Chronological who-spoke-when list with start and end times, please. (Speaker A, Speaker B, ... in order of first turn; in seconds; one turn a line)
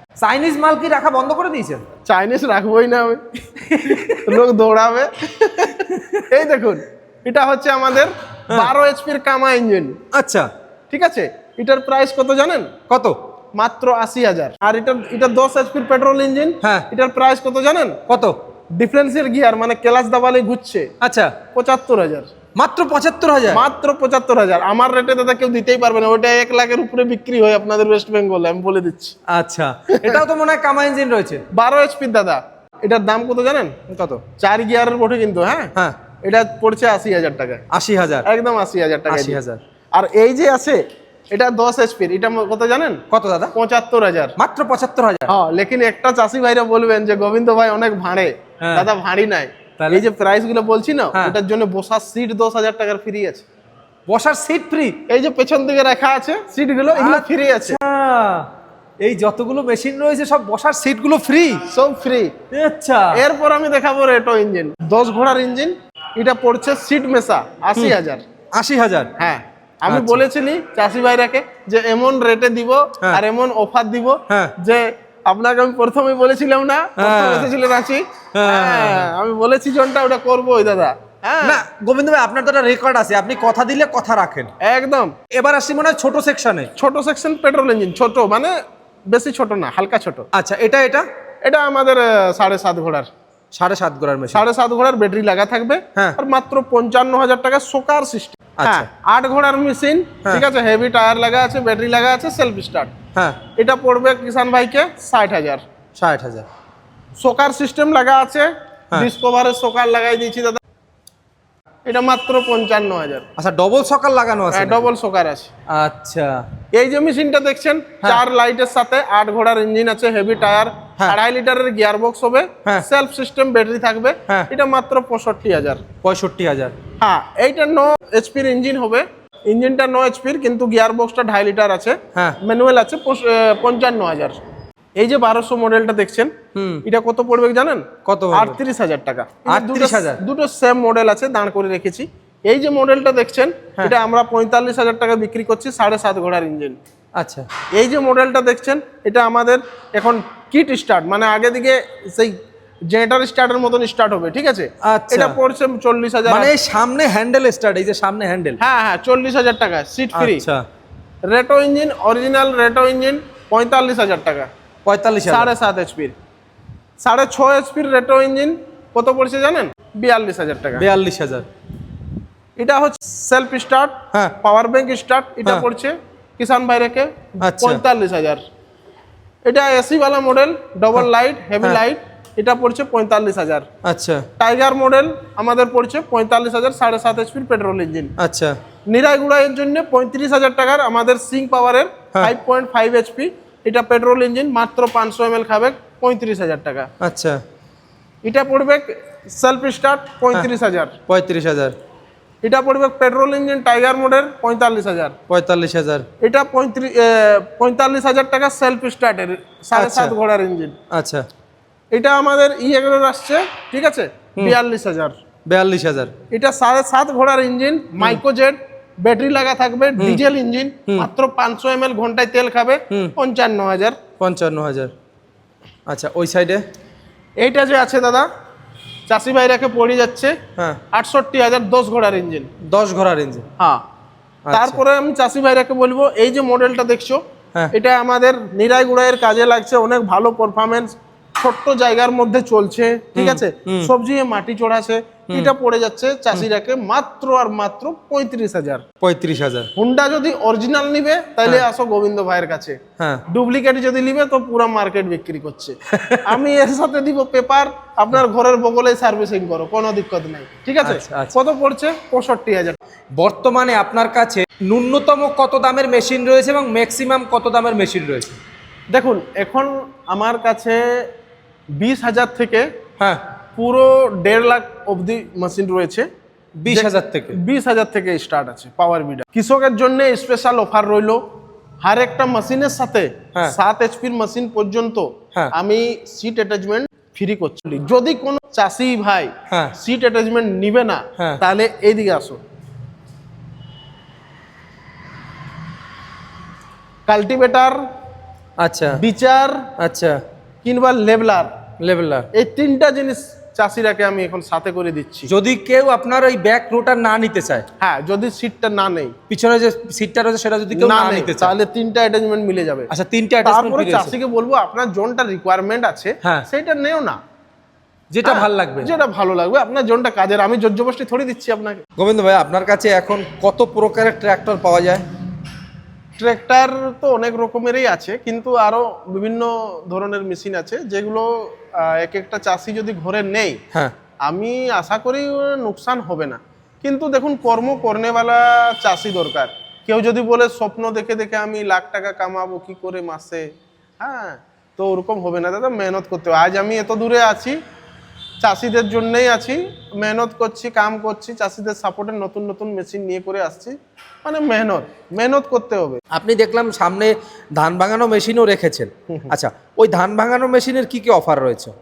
Speaker A: 0.2-1.8
Speaker B: 2.1-10.0
Speaker A: 3.6-4.4
Speaker A: 5.8-6.3
Speaker A: 10.1-10.5
Speaker B: 10.9-12.7
Speaker A: 12.9-13.2
Speaker B: 13.6-18.0
Speaker A: 16.6-16.9
Speaker A: 18.1-18.4
Speaker B: 18.8-20.9
Speaker A: 21.0-21.4
Speaker B: 21.5-22.3
Speaker A: 22.6-23.6
Speaker B: 23.5-29.2
Speaker A: 29.3-31.4
Speaker B: 29.9-30.2
Speaker B: 31.5-33.8
Speaker A: 33.9-34.2
Speaker B: 34.4-35.7
Speaker B: 36.2-37.6
Speaker A: 37.7-38.3
Speaker B: 38.2-39.4
Speaker A: 39.1-39.6
Speaker B: 39.9-40.8
Speaker B: 41.3-43.0
Speaker A: 43.1-43.5
Speaker B: 43.5-44.4
Speaker A: 44.4-45.3
Speaker B: 45.3-53.5
Speaker A: 48.6-48.9
Speaker A: 49.8-50.0
Speaker A: 54.1-55.0
Speaker B: 55.1-57.8
Speaker A: 57.0-58.5
Speaker A: 59.0-61.6
Speaker B: 61.7-62.3
Speaker A: 62.5-63.2
Speaker B: 63.1-68.2
Speaker A: 68.5-69.1
Speaker B: 69.2-81.6
Speaker A: 69.9-70.2
Speaker A: 74.3-74.5
Speaker A: 77.0-77.5
Speaker A: 78.3-79.1
Speaker A: 81.4-84.5
Speaker B: 84.6-85.1
Speaker A: 85.3-86.7
Speaker B: 86.8-88.5
Speaker B: 89.1-90.3
Speaker A: 90.3-91.1
Speaker B: 91.4-93.1
Speaker A: 93.5-94.4
Speaker B: 94.3-102.9
Speaker A: 98.6-98.9
Speaker A: 103.2-103.4
Speaker B: 103.6-105.6
Speaker A: 106.0-106.5
Speaker B: 107.2-110.6
Speaker B: 111.9-113.2
Speaker A: 113.4-114.9
Speaker B: 114.5-115.5
Speaker A: 115.7-116.4
Speaker B: 116.7-125.8
Speaker A: 126.0-126.7
Speaker B: 127.0-134.4
Speaker B: 135.0-136.3
Speaker A: 136.5-136.8
Speaker B: 136.8-146.8
Speaker A: 138.1-138.6
Speaker A: 139.5-140.2
Speaker A: 147.2-147.5
Speaker B: 147.8-152.3
Speaker B: 152.9-156.5
Speaker A: 154.8-155.4
Speaker A: 156.3-158.6
Speaker B: 158.6-160.4
Speaker A: 160.1-160.6
Speaker B: 161.3-164.5
Speaker A: 164.8-165.5
Speaker B: 165.3-166.2
Speaker B: 167.0-170.8
Speaker A: 170.8-171.5
Speaker B: 172.6-178.4
Speaker A: 177.4-177.8
Speaker B: 179.4-183.7
Speaker A: 183.8-184.3
Speaker B: 184.4-188.1
Speaker A: 188.2-188.6
Speaker B: 188.9-196.9
Speaker A: 197.0-197.4
Speaker B: 198.2-200.9
Speaker A: 201.1-201.8
Speaker B: 202.4-205.2
Speaker A: 205.3-206.1
Speaker B: 206.2-210.8
Speaker A: 209.7-210.1
Speaker A: 210.9-211.2
Speaker B: 211.9-215.2
Speaker A: 215.5-216.1
Speaker B: 216.3-224.0
Speaker A: 224.2-224.9
Speaker A: 225.9-226.6
Speaker B: 227.4-228.3
Speaker B: 229.1-230.3
Speaker B: 230.9-232.5
Speaker A: 232.6-233.4
Speaker A: 234.5-234.8
Speaker B: 234.5-237.2
Speaker B: 237.7-248.8
Speaker A: 243.2-243.9
Speaker A: 249.0-249.7
Speaker B: 249.8-262.8
Speaker A: 253.0-253.2
Speaker A: 255.9-256.3
Speaker A: 260.8-261.4
Speaker A: 263.2-268.4
Speaker B: 268.9-271.1
Speaker B: 271.8-272.7
Speaker B: 273.6-276.1
Speaker A: 276.6-277.4
Speaker B: 276.7-281.2
Speaker B: 281.8-292.4
Speaker B: 297.1-297.8
Speaker A: 298.6-299.0
Speaker B: 299.0-299.7
Speaker A: 299.8-300.2
Speaker B: 300.6-301.5
Speaker A: 301.8-302.3
Speaker B: 302.3-305.3
Speaker A: 305.3-307.6
Speaker B: 307.8-309.1
Speaker A: 309.3-311.5
Speaker B: 310.7-312.9
Speaker A: 312.9-314.1
Speaker B: 313.4-317.2
Speaker A: 318.1-318.9
Speaker B: 318.2-321.8
Speaker A: 322.0-325.0
Speaker B: 326.2-333.6
Speaker B: 334.2-343.5
Speaker B: 344.0-347.6
Speaker B: 348.4-356.0
Speaker A: 356.1-361.7